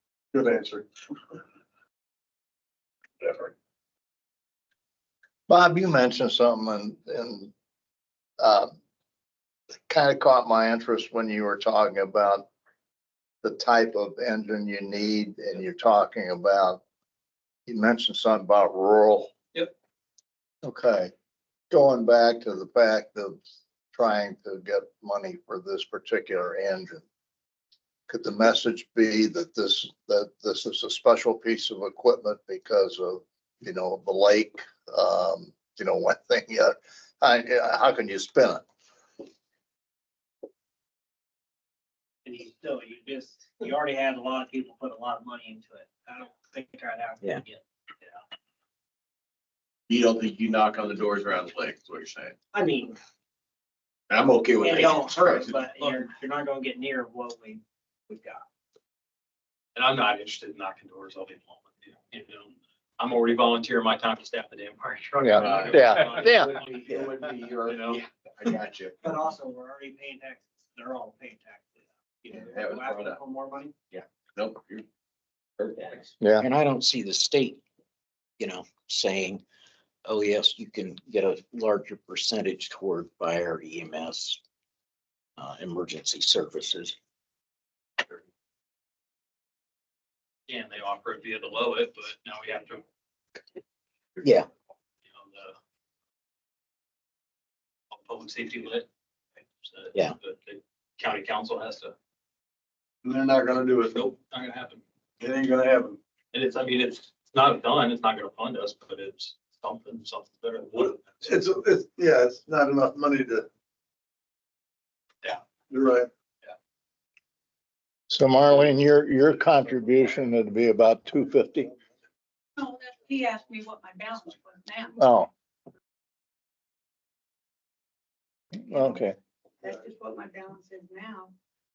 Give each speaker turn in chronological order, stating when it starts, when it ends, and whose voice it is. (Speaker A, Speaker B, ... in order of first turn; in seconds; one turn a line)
Speaker A: 0.3-0.9
Speaker A: 3.2-3.5
Speaker B: 5.5-7.5
Speaker B: 8.4-8.7
Speaker B: 9.9-12.4
Speaker B: 13.4-16.8
Speaker B: 17.7-19.3
Speaker B: 20.6-21.1
Speaker B: 21.7-23.4
Speaker B: 23.9-27.0
Speaker B: 28.1-38.6
Speaker C: 42.2-47.6
Speaker D: 49.9-52.3
Speaker C: 52.5-53.0
Speaker D: 54.1-55.5
Speaker C: 54.6-58.4
Speaker E: 55.5-56.1
Speaker E: 59.7-66.8
Speaker B: 65.2-66.5
Speaker D: 65.3-69.0
Speaker C: 69.0-73.7
Speaker D: 72.3-73.2
Speaker D: 73.9-74.8
Speaker D: 75.6-76.1
Speaker B: 76.2-76.5
Speaker F: 76.4-77.6
Speaker F: 78.4-79.4
Speaker F: 80.0-84.4
Speaker F: 85.4-87.0
Speaker E: 90.5-92.8
Speaker F: 94.2-94.5
Speaker E: 95.0-95.5
Speaker E: 97.9-98.9
Speaker E: 99.5-101.9
Speaker A: 103.0-104.0
Speaker E: 103.9-104.8
Speaker A: 105.2-106.0
Speaker E: 106.3-111.3
Speaker A: 110.8-113.5
Speaker A: 115.7-116.1
Speaker B: 118.1-121.7
Speaker G: 122.6-125.0
Speaker B: 125.0-125.3
Speaker B: 128.7-129.2
Speaker G: 128.8-129.0
Speaker G: 129.6-131.3